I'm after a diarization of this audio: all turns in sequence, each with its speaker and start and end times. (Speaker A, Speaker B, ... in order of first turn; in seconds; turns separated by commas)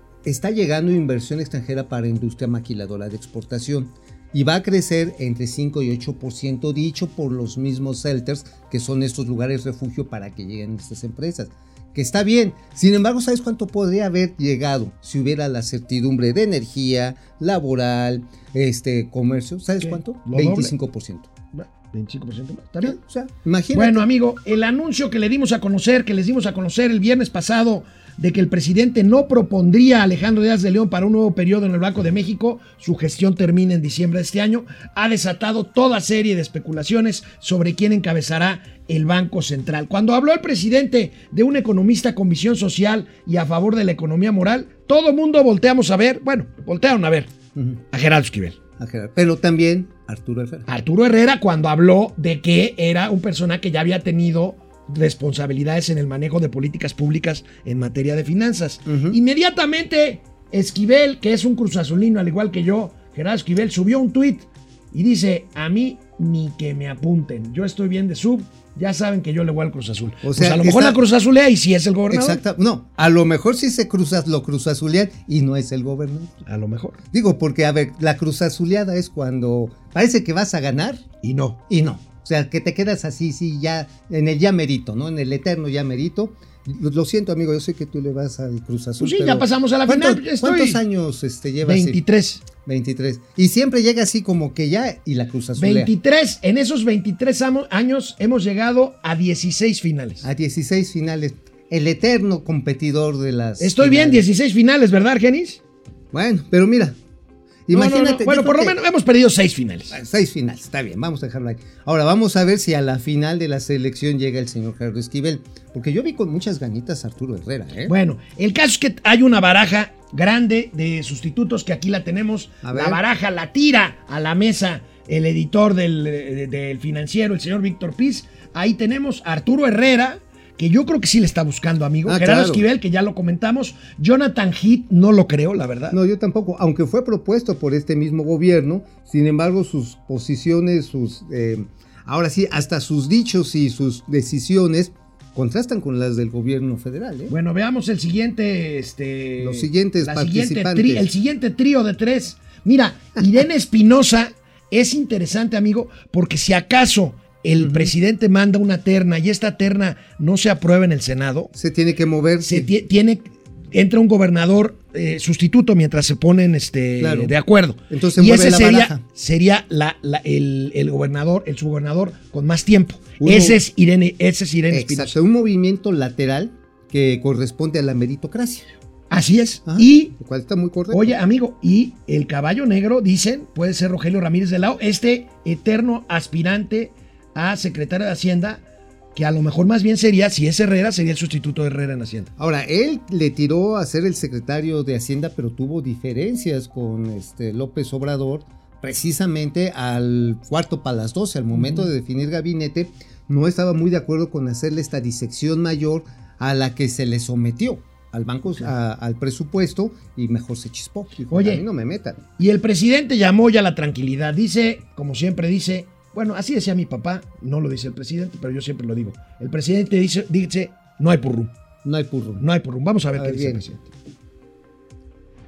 Speaker A: 0.2-21.3, Speaker B: 19.8-20.7, Speaker B: 21.5-23.0, Speaker A: 22.8-24.1, Speaker B: 23.7-47.3, Speaker A: 47.5-47.8, Speaker B: 47.9-48.6, Speaker A: 48.8-50.6, Speaker B: 50.7-72.4, Speaker A: 58.9-59.2, Speaker A: 70.2-71.0, Speaker A: 72.1-76.4, Speaker B: 76.5-77.0, Speaker A: 77.1-81.0, Speaker B: 81.2-81.6, Speaker A: 81.7-92.0, Speaker B: 89.0-90.8, Speaker B: 91.6-92.4, Speaker A: 92.6-95.9, Speaker B: 95.6-100.2, Speaker A: 100.2-104.3, Speaker B: 103.6-105.6, Speaker A: 106.1-107.0, Speaker A: 107.7-108.8, Speaker B: 107.7-109.9, Speaker A: 109.9-117.9, Speaker B: 117.9-136.0, Speaker A: 122.6-123.0, Speaker A: 132.1-132.6, Speaker A: 135.9-147.3, Speaker B: 147.3-161.5, Speaker A: 149.4-151.1, Speaker A: 157.6-157.9, Speaker A: 161.5-162.7, Speaker B: 162.4-175.2, Speaker A: 167.0-167.3, Speaker A: 167.9-169.0, Speaker A: 173.2-173.6, Speaker A: 174.7-178.7, Speaker B: 179.1-180.1, Speaker A: 179.7-181.1, Speaker B: 180.9-188.6, Speaker B: 189.1-192.3, Speaker A: 192.4-212.2, Speaker B: 201.6-201.9, Speaker B: 211.3-211.6, Speaker B: 212.4-221.5, Speaker A: 221.8-222.4, Speaker B: 222.4-223.9, Speaker A: 223.1-223.6